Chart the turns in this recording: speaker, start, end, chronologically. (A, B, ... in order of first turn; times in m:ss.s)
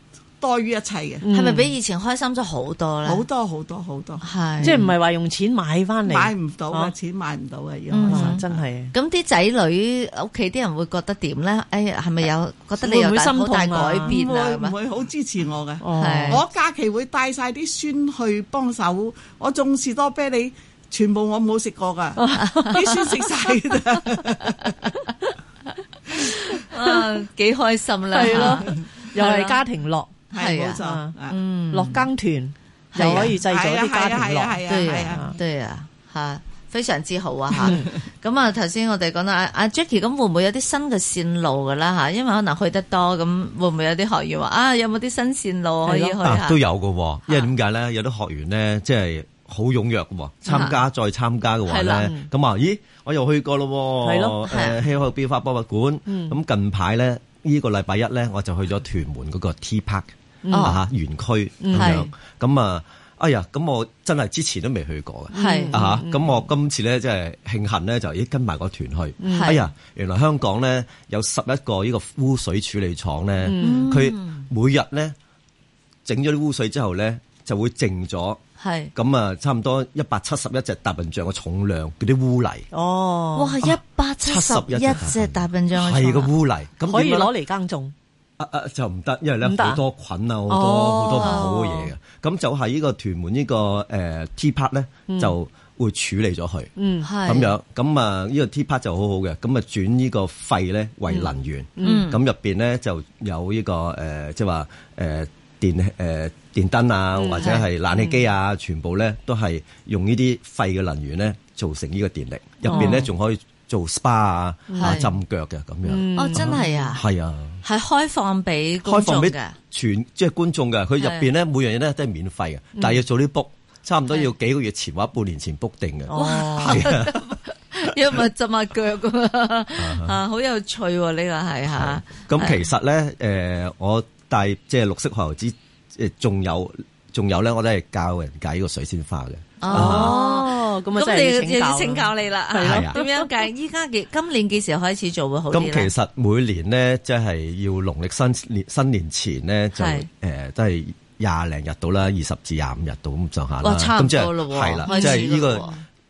0:00.4-0:01.2 A
0:01.2-0:01.7 B
0:01.3-0:03.2 C
0:03.0-0:04.8 A
0:04.2-0:04.9 C
0:04.6-0:06.9 B
0:06.0-0:08.6 A
0:07.9-0:14.7 C
0:08.1-0:08.9 B
0:12.8-0:14.2 B
0:14.1-0:24.9 A
0:15.8-0:16.4 B
0:16.0-0:16.4 C
0:22.2-0:23.0 B
0:22.5-0:22.8 C
0:26.7-0:29.6 C
0:28.1-0:30.1 B
0:28.2-0:28.8 A
0:30.3-0:31.4 A
0:30.3-0:32.0 C
0:30.8-0:31.1 B
0:31.7-0:35.4 B
0:32.9-0:33.3 C
0:33.2-0:35.3 A
0:34.7-0:46.6 C
0:37.5-0:37.8 A
0:37.6-0:37.9 B
0:45.8-0:46.2 B
0:46.2-1:00.1 D
0:50.5-0:50.8 C
0:51.7-0:52.1 C
0:52.0-0:52.3 B
0:54.0-0:54.4 B
0:54.5-0:54.8 C
0:56.1-0:56.4 B
1:00.4-1:00.7 B
1:00.5-1:00.8 C
1:00.6-1:15.1 D
1:01.6-1:02.0 B
1:01.7-1:02.1 C
1:05.3-1:06.3 B
1:05.3-1:05.8 C
1:09.2-1:09.6 B
1:09.3-1:09.6 C
1:13.4-1:13.9 B
1:13.6-1:14.5 C
1:16.0-1:18.4 D
1:18.6-1:18.9 C
1:18.9-1:22.7 D
1:22.7-1:23.6 B
1:23.4-1:26.3 C
1:23.6-1:27.3 D
1:26.9-1:27.9 B
1:28.4-1:36.7 D
1:29.4-1:29.8 B
1:30.5-1:31.8 B
1:31.1-1:31.6 C
1:35.1-1:35.3 B
1:36.8-1:37.1 B
1:37.0-1:37.5 C
1:37.2-1:57.6 D
1:41.8-1:42.1 B
1:41.8-1:42.2 C
1:47.2-1:48.2 B
1:47.3-1:47.6 C
1:52.6-1:53.0 B
1:52.7-1:53.0 C
1:54.7-1:55.0 B
1:54.8-1:55.1 C
1:55.8-1:56.9 B
1:56.2-1:57.0 C
1:57.6-1:59.5 C
1:58.8-2:07.2 D
2:01.0-2:01.3 C
2:06.1-2:06.9 B
2:06.1-2:12.6 C
2:09.8-2:10.2 D
2:11.7-2:20.2 D
2:19.6-2:25.9 C
2:19.7-2:23.2 B
2:22.6-2:23.0 D
2:25.5-2:35.7 D
2:29.8-2:30.0 C
2:33.6-2:35.8 C
2:34.9-2:35.3 B